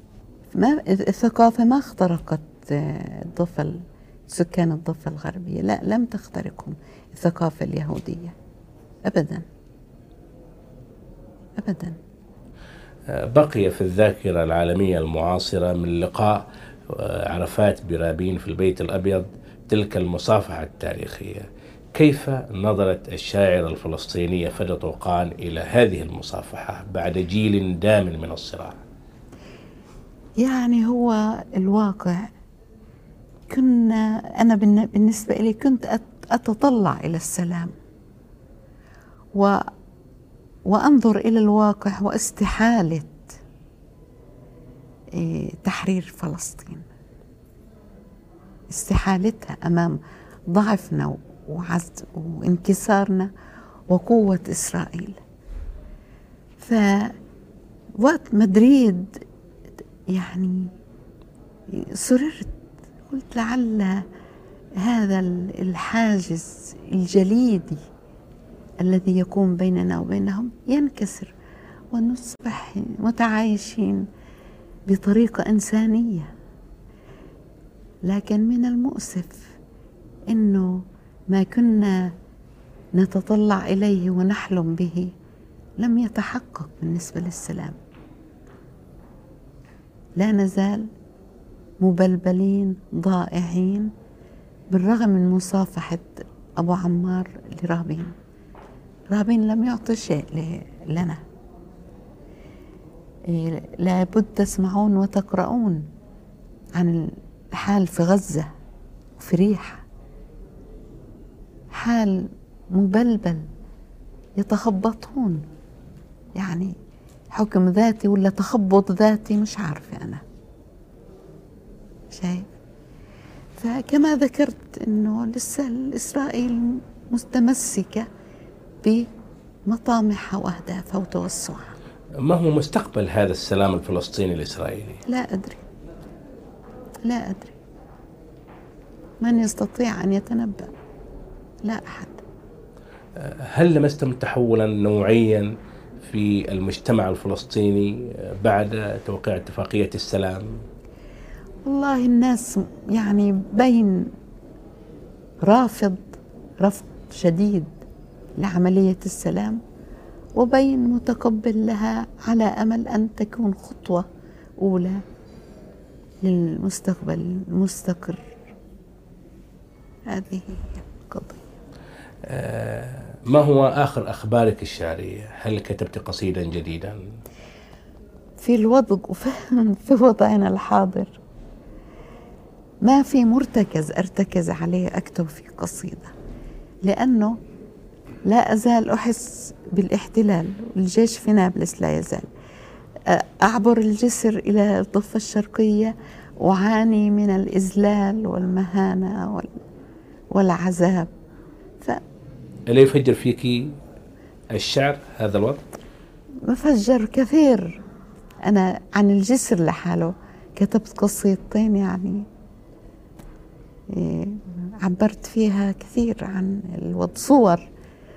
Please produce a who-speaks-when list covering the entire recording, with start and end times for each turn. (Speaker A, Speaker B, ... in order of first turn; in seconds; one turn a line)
Speaker A: 0.5-8.3
Speaker A: 9.1-9.4
Speaker A: 11.6-12.0
Speaker B: 13.1-28.8
Speaker A: 30.4-32.3
Speaker A: 33.5-37.7
Speaker A: 39.3-39.6
Speaker A: 40.7-43.4
Speaker A: 45.1-46.9
Speaker A: 48.7-50.0
Speaker A: 50.5-53.3
Speaker A: 53.9-55.2
Speaker A: 56.6-57.2
Speaker A: 58.0-59.2
Speaker A: 60.1-60.7
Speaker A: 61.7-62.6
Speaker A: 63.1-64.0
Speaker A: 64.8-67.8
Speaker A: 68.8-71.3
Speaker A: 71.9-74.1
Speaker A: 74.9-76.3
Speaker A: 78.0-79.5
Speaker A: 80.3-82.1
Speaker A: 83.0-85.1
Speaker A: 85.8-87.8
Speaker A: 90.2-90.9
Speaker A: 91.8-93.9
Speaker A: 94.7-98.2
Speaker A: 99.1-101.2
Speaker A: 103.3-105.9
Speaker A: 106.8-108.5
Speaker A: 109.2-109.8
Speaker A: 111.7-113.5
Speaker A: 114.4-115.5
Speaker A: 116.4-116.8
Speaker A: 117.3-120.2
Speaker A: 122.1-122.5
Speaker A: 123.6-128.1
Speaker A: 128.8-129.1
Speaker A: 129.7-131.8
Speaker B: 132.2-135.0
Speaker A: 135.1-135.7
Speaker A: 137.1-137.6
Speaker A: 139.2-140.7
Speaker A: 141.6-142.2
Speaker B: 143.2-150.6
Speaker A: 151.6-154.1
Speaker A: 155.5-157.8
Speaker A: 158.4-159.6
Speaker A: 160.4-164.1
Speaker A: 164.6-165.0
Speaker A: 166.2-168.3
Speaker A: 170.1-171.5
Speaker B: 172.2-177.0
Speaker A: 178.4-181.2
Speaker A: 182.8-186.1
Speaker A: 186.8-187.4
Speaker A: 188.3-192.3
Speaker A: 193.1-199.6
Speaker A: 200.3-201.1
Speaker B: 202.7-203.8
Speaker B: 204.5-205.6
Speaker A: 206.5-207.8
Speaker A: 208.5-212.3
Speaker A: 213.9-217.7